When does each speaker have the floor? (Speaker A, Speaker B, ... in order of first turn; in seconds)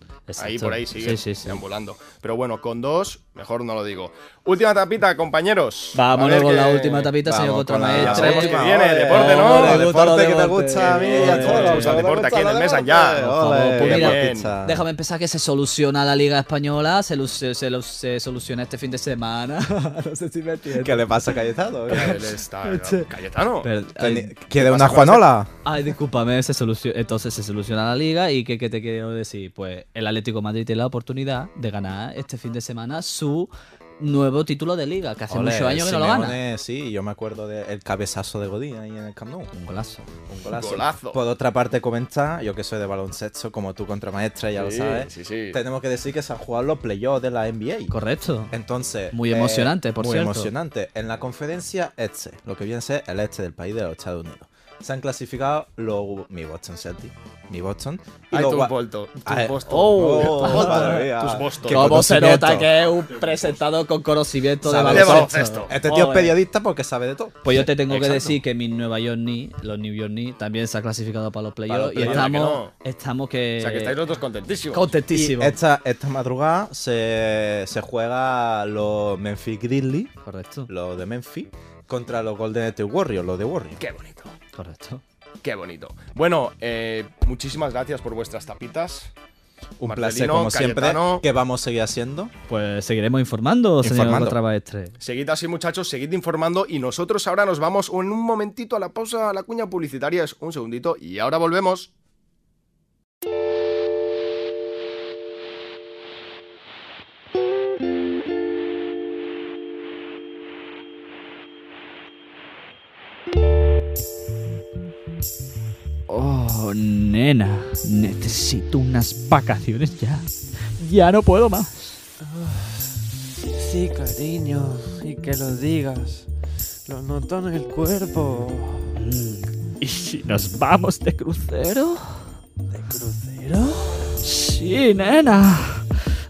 Speaker A: 0.3-1.6, 5.9-12.1, 13.3-21.4, 21.9-23.1, 23.6-24.3, 25.6-36.4, 39.5-40.1, 47.9-48.5, 49.1-50.5, 59.6-61.1, 61.6-66.3, 67.4-74.0, 74.7-75.5, 80.2-80.7, 84.5-85.0, 92.5-95.0, 116.1-122.0, 128.9-132.2, 132.7-135.8
Speaker B: 0.4-7.1, 7.9-9.9, 10.8-14.5, 21.9-23.7, 24.5-25.3, 40.5-41.2, 44.5-45.6, 58.3-62.0, 64.8-65.7, 67.9-68.4, 71.7-72.7, 73.6-74.9, 83.8-84.3, 85.4-89.1, 89.8-91.2, 95.0-101.9
Speaker C: 7.2-14.8, 20.7-22.2, 24.0-25.5, 35.3-39.5, 40.3-47.9, 48.5-62.7, 64.6-67.6, 72.0-72.3, 75.1-80.1, 80.7-83.8, 89.8-92.3, 93.8-94.4
Speaker D: 122.2-122.6, 123.5-126.2, 126.9-128.8